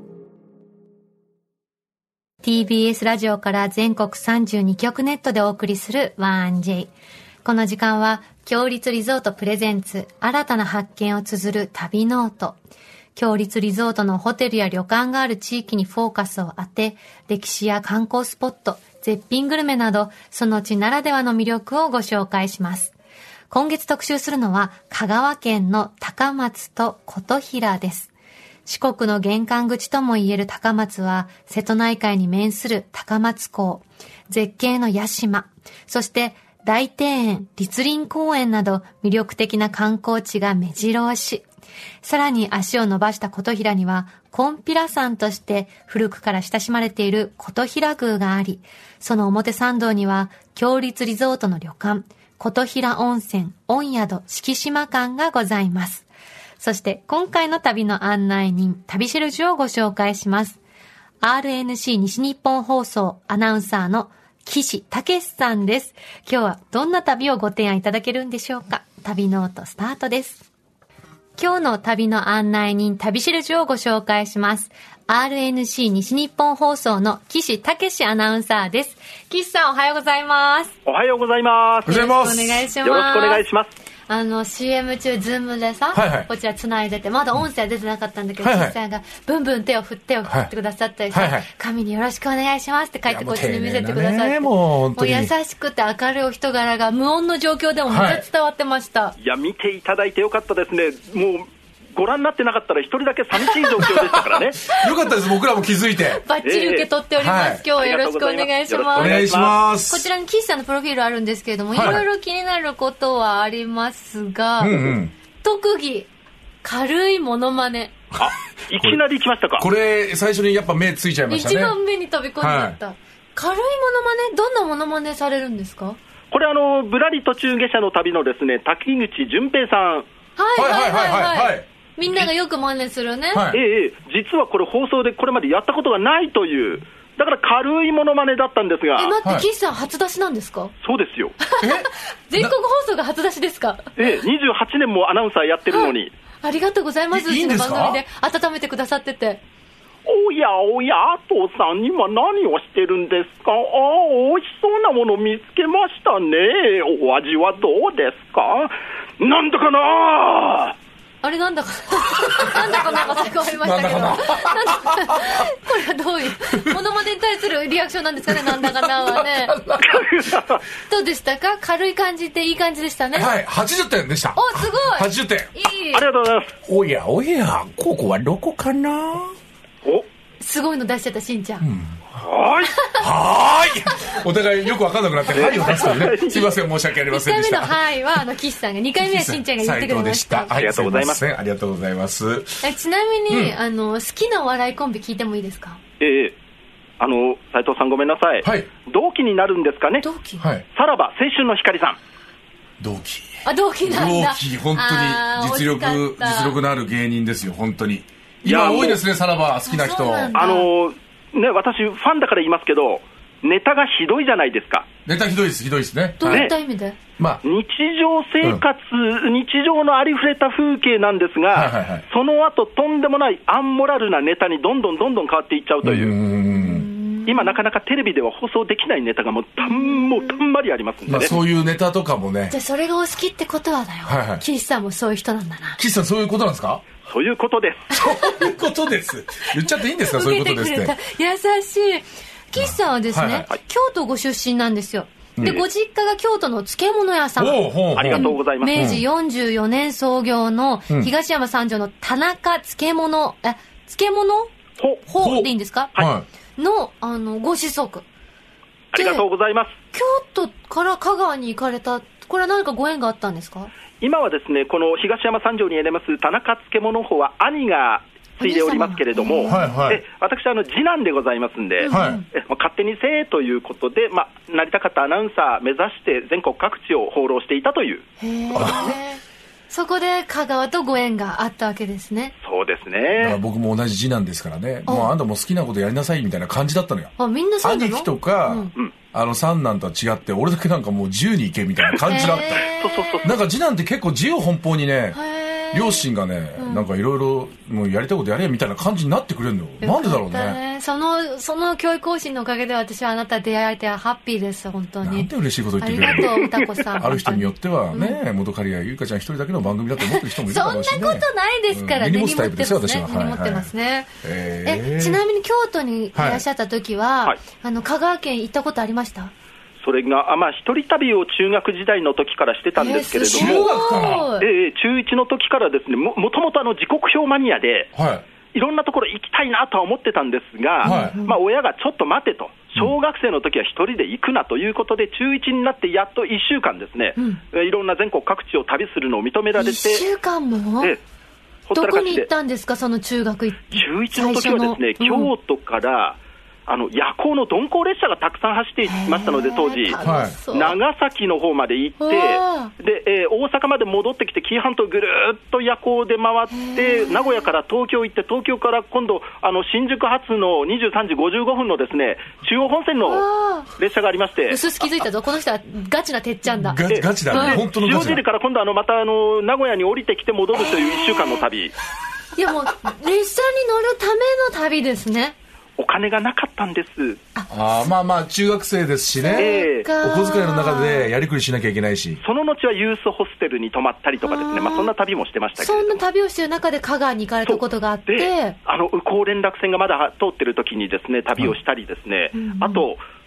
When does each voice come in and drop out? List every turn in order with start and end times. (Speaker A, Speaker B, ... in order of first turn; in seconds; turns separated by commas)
Speaker A: 2.4-6.9, Speaker A: 7.4-12.6, Speaker A: 13.1-22.9, Speaker A: 23.5-28.1, Speaker A: 28.6-41.5, Speaker A: 42.0-56.1, Speaker A: 56.6-60.6, Speaker A: 61.2-70.5, Speaker A: 71.4-80.7, Speaker B: 80.8-82.1, Speaker C: 81.8-82.6, Speaker A: 81.9-83.4, Speaker B: 82.8-83.7, Speaker A: 84.1-99.2, Speaker C: 85.9-86.3, Speaker C: 88.4-88.8, Speaker C: 91.1-91.5, Speaker C: 93.1-95.3, Speaker C: 97.9-98.2, Speaker B: 99.2-104.7, Speaker C: 104.0-106.2, Speaker A: 106.0-109.2, Speaker B: 106.4-106.9, Speaker C: 107.2-107.6, Speaker B: 107.7-109.6, Speaker C: 109.0-110.1, Speaker A: 109.9-116.1, Speaker C: 111.7-112.0, Speaker C: 114.6-115.1, Speaker A: 116.6-118.0, Speaker B: 118.2-119.7, Speaker C: 119.6-121.8, Speaker A: 121.3-126.0, Speaker C: 122.4-122.8, Speaker B: 126.3-130.1, Speaker A: 130.4-133.4, Speaker C: 130.6-132.3, Speaker C: 133.3-133.6, Speaker B: 133.5-139.2, Speaker A: 138.9-140.7, Speaker B: 140.8-141.4, Speaker A: 141.4-143.9, Speaker C: 141.6-142.5, Speaker B: 144.0-146.1, Speaker A: 145.7-149.4, Speaker C: 147.1-148.0, Speaker B: 150.1-160.7, Speaker A: 161.2-169.5, Speaker C: 162.2-162.8, Speaker C: 163.4-165.4, Speaker C: 166.5-166.8, Speaker C: 168.3-170.5, Speaker B: 169.8-170.6, Speaker A: 170.8-173.3, Speaker C: 173.1-175.5, Speaker A: 174.3-176.1, Speaker B: 175.9-176.5, Speaker C: 176.6-179.3, Speaker A: 180.4-181.6, Speaker C: 181.6-182.0, Speaker B: 182.2-182.7, Speaker A: 182.7-183.0, Speaker C: 183.0-188.2, Speaker A: 183.8-184.2, Speaker A: 185.3-186.4, Speaker B: 185.3-186.4, Speaker A: 187.1-190.5, Speaker C: 189.0-192.7, Speaker B: 190.6-191.2, Speaker A: 192.6-195.8, Speaker C: 193.3-193.6, Speaker B: 196.0-196.3, Speaker B: 197.0-200.1, Speaker C: 198.4-198.7, Speaker A: 200.0-200.4, Speaker C: 200.4-200.6, Speaker B: 200.7-202.0, Speaker C: 202.8-210.3, Speaker A: 203.4-206.6, Speaker B: 208.4-209.0, Speaker A: 209.7-210.7, Speaker B: 210.3-214.9, Speaker C: 215.0-216.5, Speaker A: 216.2-217.0, Speaker B: 216.3-216.5, Speaker B: 217.4-226.1, Speaker C: 221.5-222.0, Speaker C: 225.8-226.9, Speaker A: 226.5-227.6, Speaker B: 227.2-231.3, Speaker A: 229.6-230.4, Speaker C: 231.1-232.6, Speaker A: 232.5-235.8, Speaker C: 234.0-234.4, Speaker C: 235.8-236.8, Speaker B: 237.1-237.9, Speaker A: 237.9-238.5, Speaker C: 238.0-240.9, Speaker A: 239.5-254.5, Speaker C: 242.6-243.5, Speaker C: 245.4-245.6, Speaker C: 247.4-249.0, Speaker B: 247.9-249.0, Speaker B: 254.8-255.0, Speaker A: 255.0-255.9, Speaker C: 255.2-256.2, Speaker A: 256.6-258.0, Speaker B: 258.9-259.8, Speaker A: 258.9-259.2, Speaker A: 259.9-263.7, Speaker B: 264.0-278.9, Speaker A: 268.4-269.8, Speaker C: 269.4-270.0, Speaker A: 271.8-272.2, Speaker C: 271.9-272.2, Speaker A: 278.2-282.3, Speaker C: 278.5-278.9, Speaker B: 282.4-283.4, Speaker C: 283.2-292.6, Speaker A: 284.9-285.1, Speaker A: 287.2-288.7, Speaker A: 292.1-293.2, Speaker B: 292.5-293.4, Speaker C: 293.2-295.2, Speaker A: 295.1-296.1, Speaker C: 295.7-300.6, Speaker A: 296.6-296.9, Speaker A: 299.8-308.2, Speaker C: 305.0-313.7, Speaker B: 306.1-306.6, Speaker A: 310.0-314.1, Speaker C: 314.2-315.2, Speaker A: 314.6-319.3, Speaker C: 316.1-316.4, Speaker B: 319.8-323.7, Speaker A: 322.8-324.5, Speaker C: 323.3-324.3, Speaker B: 324.4-327.9, Speaker C: 327.9-328.2, Speaker B: 328.5-340.1, Speaker C: 330.8-331.2, Speaker A: 330.8-331.3, Speaker A: 339.6-340.9, Speaker B: 341.7-342.3, Speaker A: 341.7-345.3, Speaker B: 343.7-350.0, Speaker A: 348.9-350.8, Speaker C: 350.0-350.4, Speaker B: 350.5-363.2, Speaker A: 352.0-352.7, Speaker A: 356.5-357.4, Speaker A: 363.0-363.7, Speaker B: 363.8-364.6, Speaker A: 364.5-366.8, Speaker C: 366.5-368.2, Speaker B: 366.9-371.7, Speaker A: 367.3-367.6, Speaker A: 371.0-371.4, Speaker A: 372.4-375.3, Speaker B: 375.8-377.2, Speaker C: 377.5-382.2, Speaker A: 379.2-381.1, Speaker B: 379.4-379.9, Speaker B: 382.2-386.0, Speaker A: 384.2-384.9, Speaker A: 385.6-388.6, Speaker B: 387.4-393.0, Speaker A: 392.3-392.9